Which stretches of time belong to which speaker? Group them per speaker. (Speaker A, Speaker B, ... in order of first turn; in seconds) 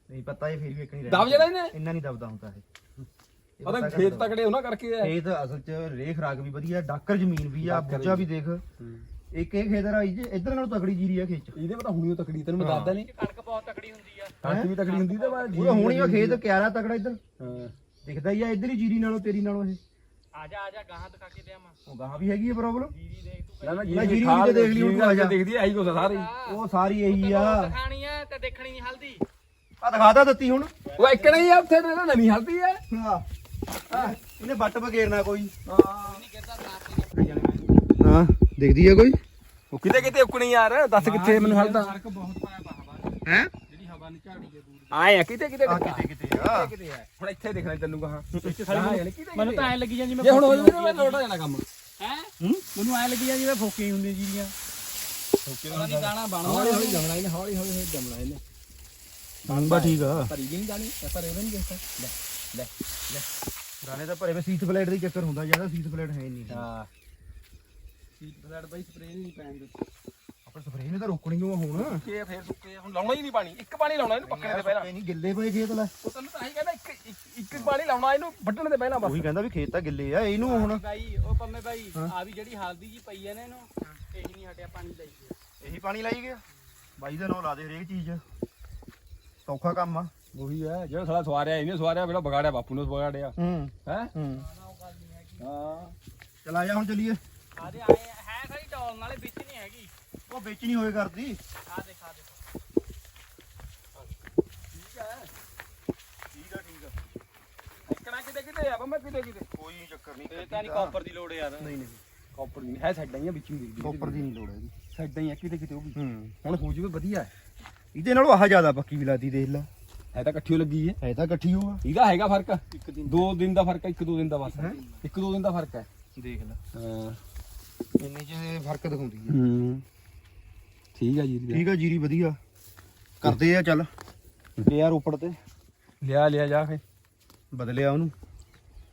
Speaker A: 0.1-2.6, 3.6-4.3, 5.0-8.6, 9.3-11.5, 12.6-12.9, 14.4-14.7, 15.5-17.2, 18.1-19.8, 21.9-22.9, 23.9-25.4, 26.4-27.7, 29.8-30.7, 32.9-33.2, 33.9-35.5, 38.0-39.2, 43.3-43.5, 45.7-46.7, 59.5-60.3, 63.8-66.7, 70.5-72.0, 74.2-75.9, 79.0-80.8, 85.6-86.4, 87.0-88.2, 89.5-90.1, 93.4-94.5, 96.5-97.2, 100.3-101.4, 106.3-106.9, 109.5-110.9, 111.6-112.0, 113.8-114.7, 116.0-116.3, 117.9-119.7, 121.0-121.8, 126.2-126.6, 128.0-129.4, 131.5-132.4, 133.2-133.9, 134.6-135.4, 137.5-138.1
Speaker B: 1.1-1.7, 3.6-5.1, 7.6-8.3, 11.6-13.1, 14.4-16.4, 17.4-17.7, 23.6-26.3, 31.0-32.8, 33.9-34.2, 35.7-36.2, 39.7-42.0, 44.9-51.6, 55.5-58.4, 59.5-63.3, 66.5-66.9, 71.8-74.9, 76.0-79.2, 90.3-94.1, 95.4-95.9, 104.7-105.3, 107.9-109.5, 110.6-111.0, 112.3-114.2, 114.9-117.3, 120.1-121.0, 121.8-125.9, 126.8-127.2, 129.3-129.8, 131.0-131.6, 136.0-136.8
Speaker C: 13.0-15.8, 20.3-21.8, 22.9-24.4, 25.8-29.2, 30.9-31.5, 36.0-37.7, 41.0-45.1, 48.4-51.2, 52.0-54.5, 55.7-57.0, 68.2-69.7, 80.4-85.4, 94.4-95.5, 97.6-99.9, 101.7-102.5, 110.3-111.7, 122.7-123.3, 124.5-125.0